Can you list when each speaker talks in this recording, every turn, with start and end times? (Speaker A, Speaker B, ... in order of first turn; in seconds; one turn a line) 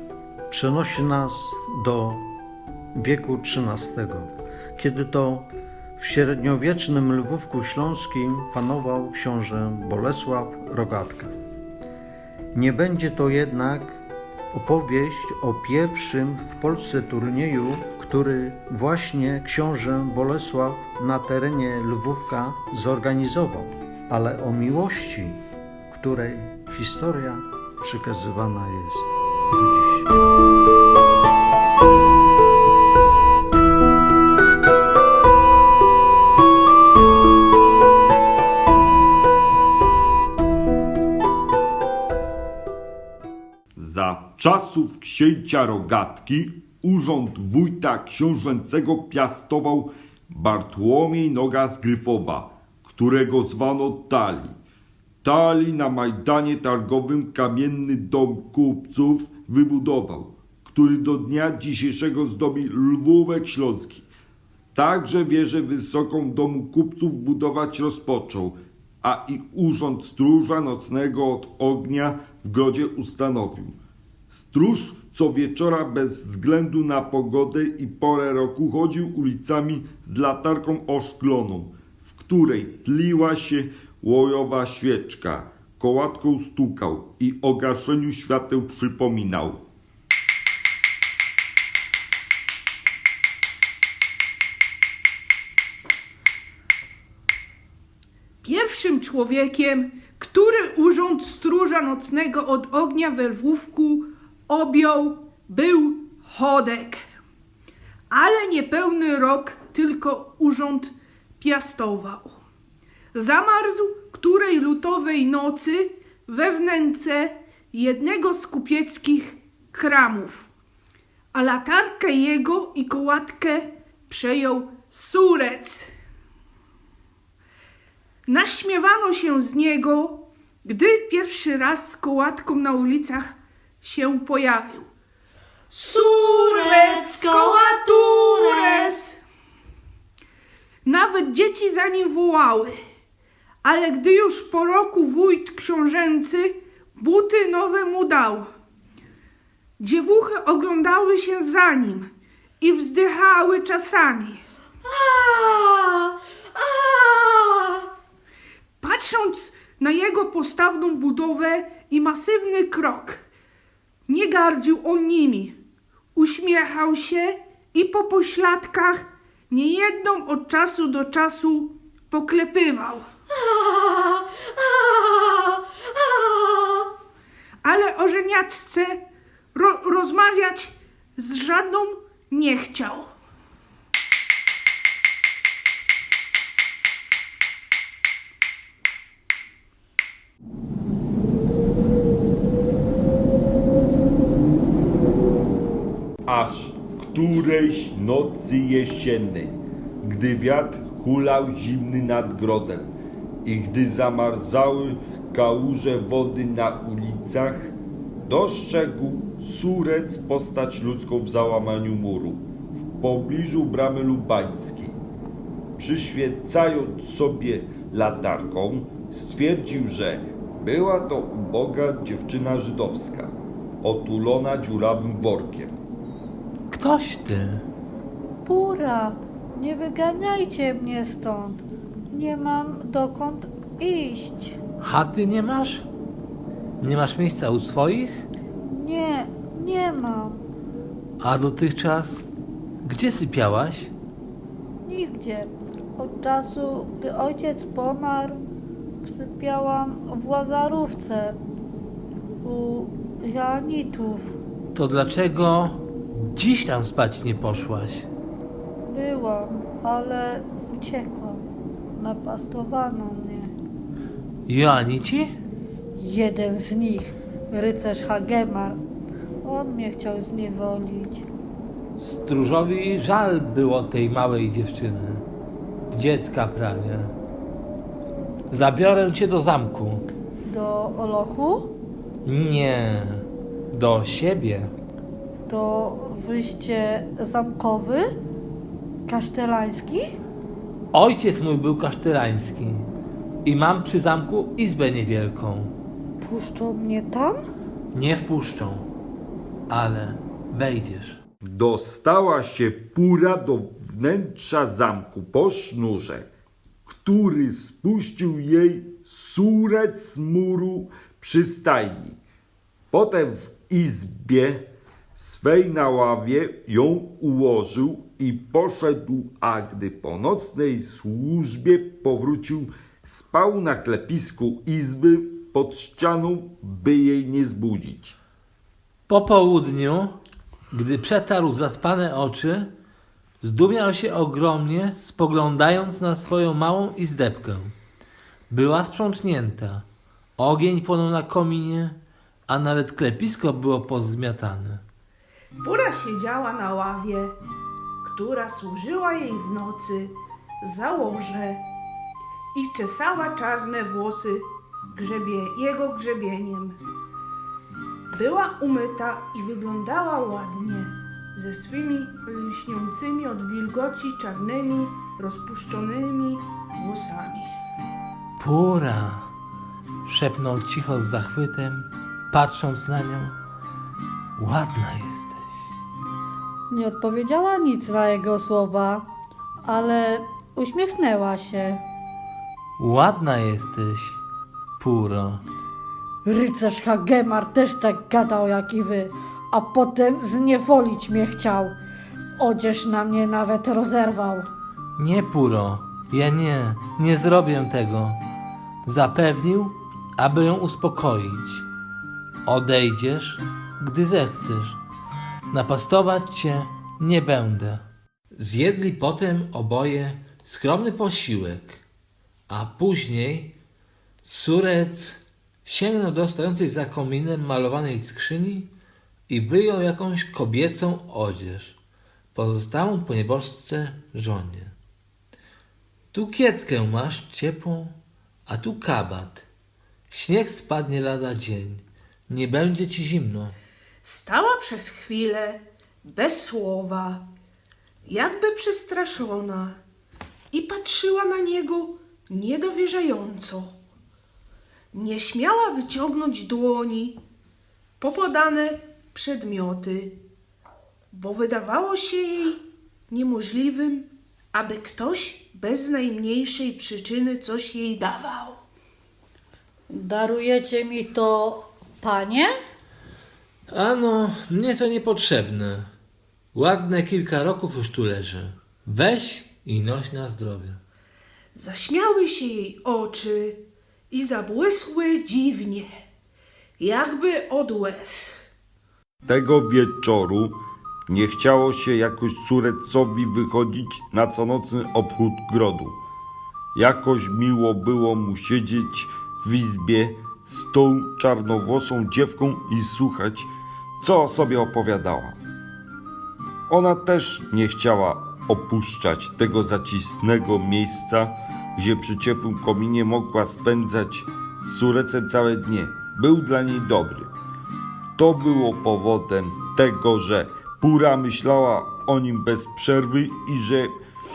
Speaker A: 0.5-2.3
Speaker A: 2.9-11.3
Speaker A: 12.5-14.0
Speaker A: 14.5-30.1
Speaker B: 43.8-54.5
Speaker B: 55.2-64.0
Speaker B: 64.7-73.8
Speaker B: 74.3-89.6
Speaker C: 98.4-107.0
Speaker C: 108.1-112.3
Speaker C: 113.1-120.5
Speaker C: 121.3-125.9
Speaker C: 128.3-134.9
Speaker C: 135.7-139.2
Speaker D: 135.7-138.9
Speaker C: 140.8-142.7
Speaker C: 143.6-148.5
Speaker C: 149.8-152.1
Speaker C: 152.6-154.4
Speaker D: 154.9-157.9
Speaker C: 158.8-163.2
Speaker C: 164.1-165.6
Speaker C: 166.2-173.1
Speaker D: 173.4-176.9
Speaker C: 177.6-179.0
Speaker C: 179.5-183.1
Speaker B: 196.3-202.9
Speaker B: 203.4-212.4
Speaker B: 213.0-215.0
Speaker B: 215.8-225.7
Speaker E: 226.7-227.6
Speaker D: 228.4-234.6
Speaker E: 234.8-235.8
Speaker E: 236.8-238.2
Speaker D: 238.6-240.4
Speaker E: 241.2-242.2
Speaker E: 242.8-243.9
Speaker D: 244.8-248.4
Speaker D: 249.0-251.4
Speaker D: 252.4-254.3
Speaker E: 254.7-258.1
Speaker D: 258.9-261.4
Speaker D: 261.9-263.5
Speaker E: 264.5-265.3
Speaker D: 266.0-268.8
Speaker D: 269.4-271.2
Speaker E: 272.0-275.2
Speaker E: 275.9-277.1
Speaker E: 278.5-280.0
Speaker D: 280.5-281.7
Speaker E: 282.2-284.7
Speaker D: 285.5-288.1
Speaker D: 289.1-290.1
Speaker E: 290.9-292.9
Speaker E: 293.4-295.7
Speaker D: 296.2-297.4
Speaker E: 297.9-298.9
Speaker E: 299.7-301.2
Speaker B: 301.4-306.3
Speaker B: 306.9-312.2
Speaker B: 312.9-328.1
Speaker E: 329.1-330.1
Speaker E: 330.7-332.7
Speaker E: 333.4-337.7
Speaker E: 338.5-339.9
Speaker E: 340.4-344.8
Speaker C: 345.6-347.3
Speaker C: 348.0-351.6
Speaker C: 352.5-356.8
Speaker C: 358.1-367.5
Speaker E: 368.4-369.3
Speaker E: 370.0-373.3
Speaker E: 374.4-375.5
Speaker D: 376.7-379.1
Speaker D: 379.6-381.8
Speaker E: 382.8-384.2
Speaker E: 384.8-385.4
Speaker D: 386.2-391.8
Speaker D: 392.4-394.5
Speaker E: 394.9-398.2
Speaker E: 398.8-401.6
Speaker E: 402.4-404.8
Speaker E: 405.5-411.8
Speaker E: 412.5-413.5
Speaker E: 414.2-418.7
Speaker E: 419.3-421.8
Speaker E: 422.3-424.7
Speaker E: 426.1-427.9
Speaker E: 428.4-429.4
Speaker E: 430.1-433.5
Speaker C: 434.0-437.2
Speaker C: 438.1-439.8
Speaker C: 440.5-443.7
Speaker C: 444.9-447.2
Speaker C: 448.0-450.2
Speaker C: 451.1-458.6
Speaker D: 459.9-462.5
Speaker E: 463.7-465.9
Speaker E: 466.5-470.8
Speaker C: 471.5-475.9
Speaker C: 476.8-478.4
Speaker B: 479.3-480.6
Speaker B: 481.1-486.0
Speaker B: 486.7-493.5
Speaker B: 494.0-495.4
Speaker B: 496.7-507.3
Speaker B: 508.1-513.9